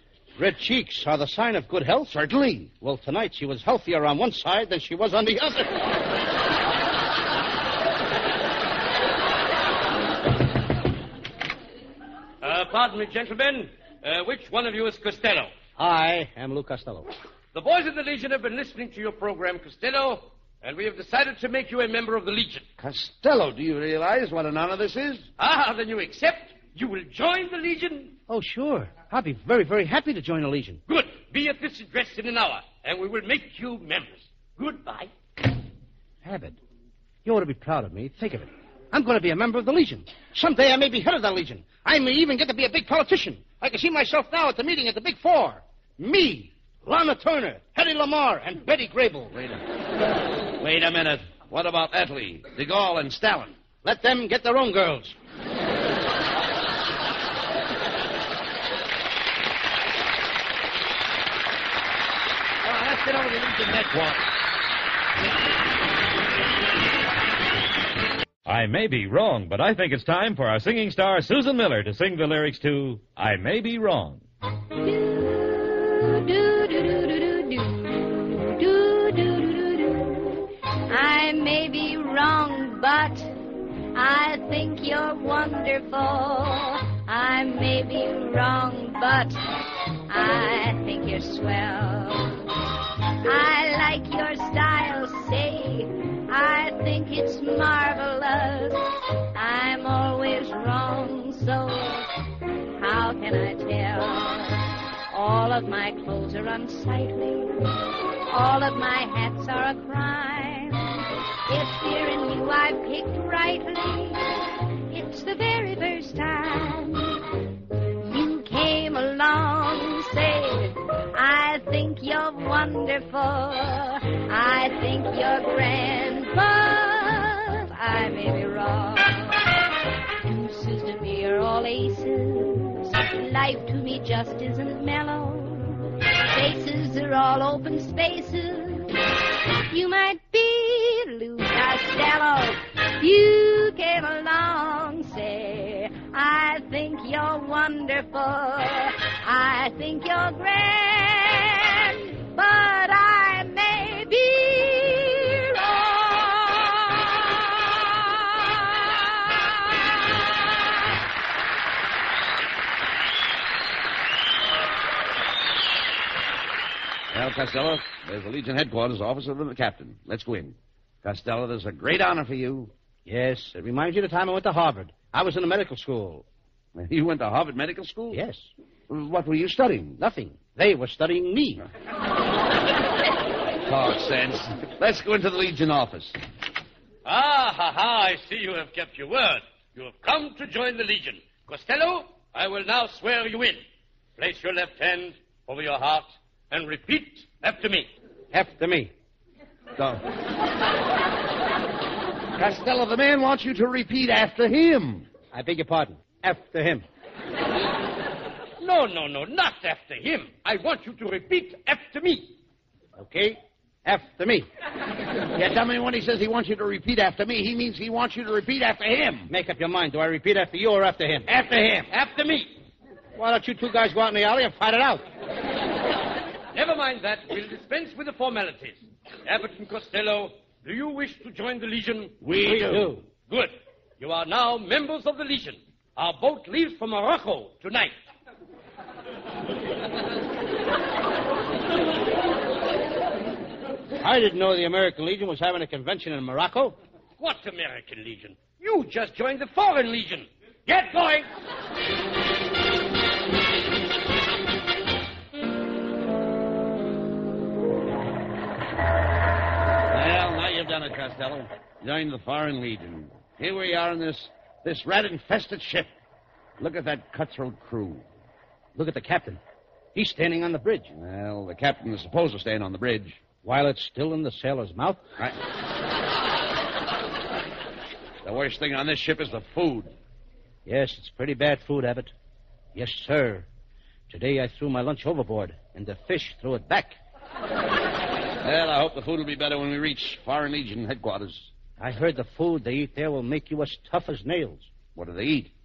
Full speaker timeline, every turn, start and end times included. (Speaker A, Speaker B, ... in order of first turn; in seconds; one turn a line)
Speaker A: 0.4-2.1
Speaker B: 2.1-2.7
Speaker A: 2.8-5.7
Speaker C: 12.4-15.5
Speaker A: 15.8-17.1
Speaker C: 17.5-22.6
Speaker B: 22.8-25.3
Speaker C: 25.4-28.2
Speaker A: 28.3-30.8
Speaker C: 30.9-35.1
Speaker A: 36.2-36.6
Speaker A: 37.2-49.3
Speaker B: 49.3-49.6
Speaker B: 50.6-53.6
Speaker A: 53.8-55.2
Speaker B: 62.6-64.3
Speaker D: 68.5-74.2
Speaker E: 74.7-83.4
Speaker E: 83.9-89.4
Speaker E: 90.1-92.5
Speaker E: 93.2-102.1
Speaker E: 102.8-107.8
Speaker E: 108.3-117.3
Speaker E: 118.0-129.5
Speaker E: 130.2-138.9
Speaker E: 139.7-159.3
Speaker B: 167.1-172.7
Speaker A: 173.1-176.2
Speaker B: 176.8-178.2
Speaker A: 178.1-178.5
Speaker B: 178.9-180.0
Speaker A: 180.0-181.6
Speaker B: 183.7-186.2
Speaker C: 187.0-193.6
Speaker C: 194.2-197.9
Speaker A: 198.3-198.9
Speaker B: 199.8-200.0
Speaker B: 202.3-205.1
Speaker A: 205.3-206.8
Speaker C: 208.6-212.3
Speaker A: 212.9-214.5
Speaker B: 215.3-219.3
Speaker A: 219.3-221.3
Speaker C: 221.3-222.6
Speaker A: 223.2-225.0
Speaker C: 226.5-232.2
Speaker B: 232.2-232.9
Speaker A: 232.4-233.0
Speaker C: 233.2-237.9
Speaker A: 244.0-246.8
Speaker C: 247.2-251.3
Speaker B: 259.9-265.9
Speaker B: 266.6-268.1
Speaker A: 268.7-269.4
Speaker A: 269.9-270.9
Speaker B: 270.9-273.2
Speaker A: 273.4-275.0
Speaker B: 278.2-279.9
Speaker A: 280.6-282.1
Speaker A: 282.7-283.4
Speaker A: 284.1-287.0
Speaker B: 288.4-291.5
Speaker A: 291.8-294.7
Speaker B: 294.9-295.5